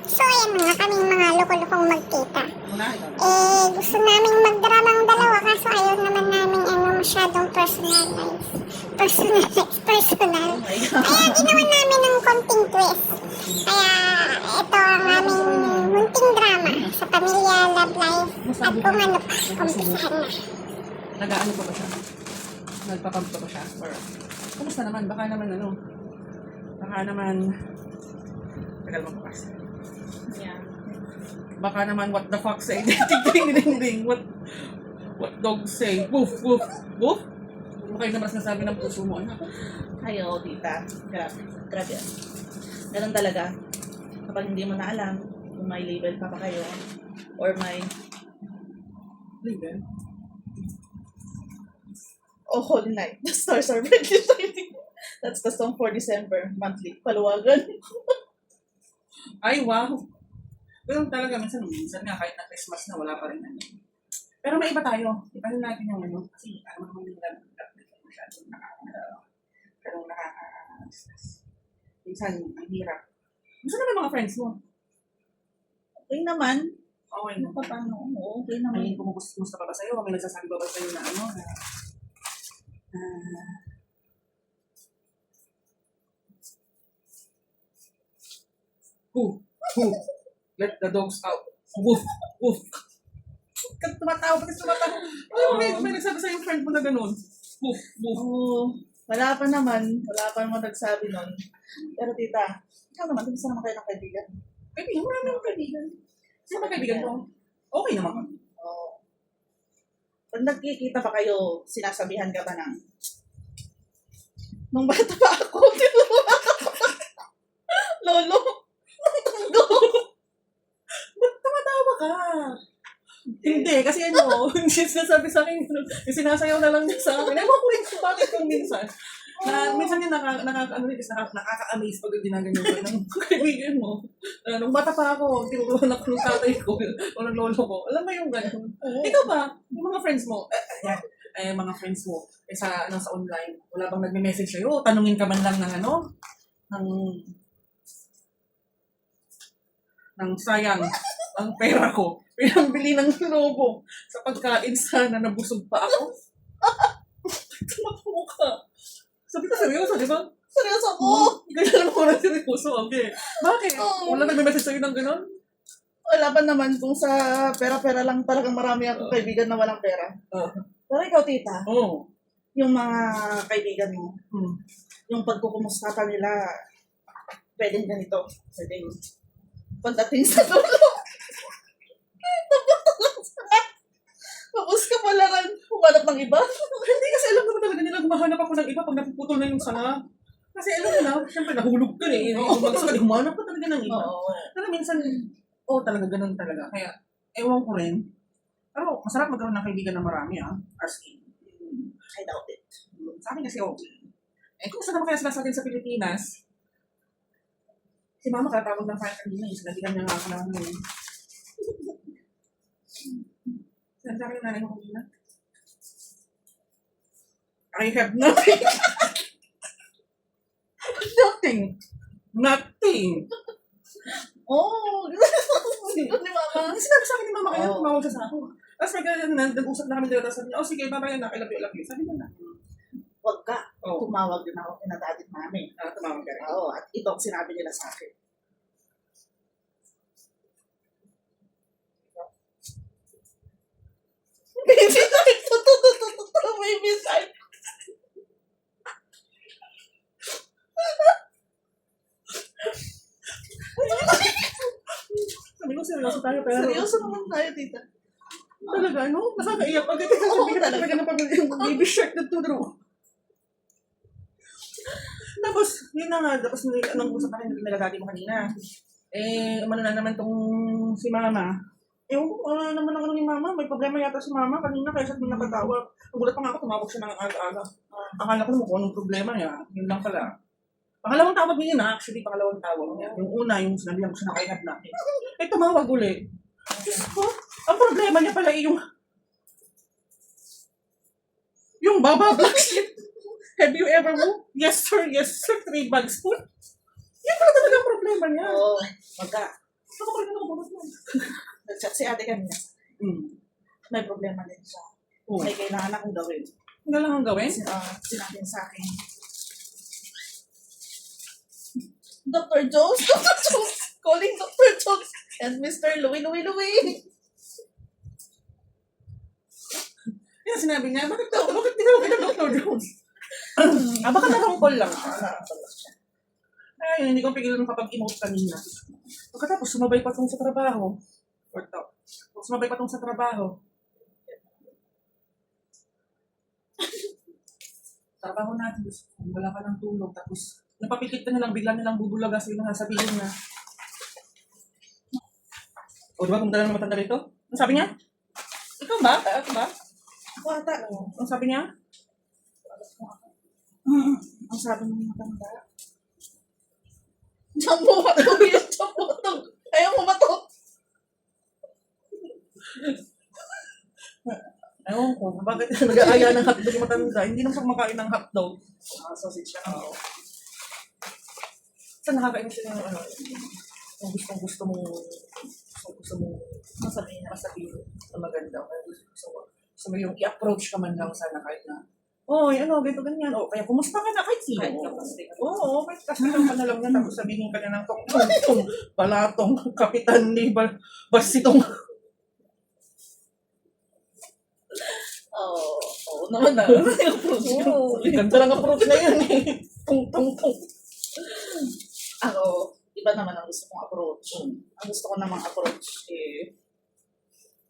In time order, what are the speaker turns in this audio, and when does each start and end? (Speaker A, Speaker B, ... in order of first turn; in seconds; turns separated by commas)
Speaker A: 0.1-2.5, Speaker B: 2.6-3.6, Speaker A: 3.2-8.4, Speaker C: 8.9-9.2, Speaker A: 9.0-13.0, Speaker B: 10.4-11.8, Speaker C: 13.1-14.1, Speaker A: 13.7-20.3, Speaker C: 15.0-16.9, Speaker C: 18.4-20.2, Speaker C: 21.2-22.0, Speaker C: 22.9-24.0, Speaker C: 24.6-25.8, Speaker C: 26.8-27.5, Speaker C: 28.9-29.5, Speaker B: 30.3-30.8, Speaker C: 31.6-37.2, Speaker C: 37.8-39.5, Speaker B: 40.0-42.1, Speaker B: 42.9-43.5, Speaker B: 44.3-46.8, Speaker B: 47.4-47.9, Speaker C: 49.4-49.8, Speaker B: 52.5-58.1, Speaker C: 59.4-60.0, Speaker C: 60.9-63.8, Speaker C: 64.4-69.2, Speaker C: 69.8-71.3, Speaker C: 72.0-73.0, Speaker C: 73.6-74.6, Speaker B: 76.1-76.8, Speaker C: 77.1-77.8, Speaker B: 77.4-79.0, Speaker C: 78.7-81.6, Speaker C: 82.9-83.6, Speaker C: 89.1-90.0, Speaker C: 90.6-92.7, Speaker C: 93.8-98.2, Speaker B: 95.3-96.0, Speaker B: 98.1-101.3, Speaker B: 102.0-104.3, Speaker C: 104.8-105.9, Speaker B: 105.2-105.8, Speaker C: 106.5-108.4, Speaker B: 106.5-107.2, Speaker B: 108.6-109.0, Speaker B: 110.3-112.8, Speaker B: 114.7-117.1, Speaker B: 117.7-120.0, Speaker C: 119.5-119.9, Speaker C: 121.2-122.6, Speaker B: 123.3-123.7, Speaker C: 123.4-146.0, Speaker B: 129.4-130.0, Speaker B: 138.8-139.3, Speaker C: 146.7-147.3, Speaker C: 150.2-156.1, Speaker B: 156.6-156.9, Speaker C: 157.3-158.6, Speaker C: 159.3-160.3, Speaker B: 160.5-161.4, Speaker C: 161.0-165.3, Speaker B: 163.2-164.4, Speaker B: 166.1-170.1, Speaker C: 170.3-170.6, Speaker B: 170.9-171.7, Speaker C: 171.7-172.1, Speaker B: 172.6-174.2, Speaker C: 174.3-174.6, Speaker B: 175.1-176.4, Speaker B: 177.6-179.0, Speaker B: 179.8-181.4, Speaker B: 182.2-183.7, Speaker B: 184.5-186.9, Speaker C: 186.8-190.0, Speaker C: 190.6-198.0, Speaker B: 190.8-191.1, Speaker B: 192.0-193.0, Speaker B: 193.9-194.5, Speaker C: 198.7-201.2, Speaker B: 201.4-202.8, Speaker C: 202.9-204.0, Speaker C: 204.6-206.4, Speaker C: 208.2-210.8, Speaker C: 214.0-215.1, Speaker C: 217.7-219.2, Speaker C: 220.9-221.6, Speaker B: 221.0-221.7, Speaker C: 222.3-223.3, Speaker B: 224.5-226.8, Speaker C: 225.9-232.6, Speaker B: 227.5-228.0, Speaker B: 233.2-235.7, Speaker C: 233.8-234.1, Speaker C: 235.8-236.6, Speaker B: 236.4-238.1, Speaker B: 244.6-247.4, Speaker B: 253.8-254.6, Speaker C: 253.8-254.4, Speaker C: 255.1-257.0, Speaker B: 256.1-257.9, Speaker C: 258.7-262.8, Speaker B: 259.8-261.9, Speaker C: 265.1-268.5, Speaker C: 269.1-271.6, Speaker C: 272.1-280.4, Speaker B: 275.2-275.7, Speaker B: 277.9-278.3, Speaker C: 281.0-286.2, Speaker B: 282.9-283.3, Speaker B: 286.8-287.1, Speaker C: 286.8-288.8, Speaker C: 291.8-293.0, Speaker C: 293.6-296.4, Speaker C: 297.2-298.6, Speaker B: 298.4-299.5, Speaker C: 299.9-301.2, Speaker B: 301.6-302.7, Speaker C: 303.0-303.4, Speaker B: 303.9-304.9, Speaker C: 305.3-305.5, Speaker B: 305.4-306.5, Speaker C: 306.9-307.6, Speaker B: 307.4-308.9, Speaker B: 312.3-317.0, Speaker C: 320.4-322.9, Speaker C: 323.6-325.4, Speaker B: 323.6-325.9, Speaker C: 326.8-331.0, Speaker C: 331.5-333.6, Speaker C: 338.2-343.3, Speaker C: 346.2-347.9, Speaker C: 348.8-349.7, Speaker B: 350.4-351.1, Speaker C: 350.7-351.7, Speaker C: 352.8-353.2, Speaker B: 353.9-355.6, Speaker B: 357.6-360.4, Speaker C: 358.2-358.6, Speaker C: 364.8-369.9, Speaker B: 366.0-366.6, Speaker B: 369.6-370.0, Speaker C: 372.0-391.7, Speaker B: 376.8-377.4, Speaker B: 384.6-385.6, Speaker B: 388.1-388.6, Speaker B: 394.9-399.2, Speaker C: 396.7-400.7, Speaker B: 402.2-406.5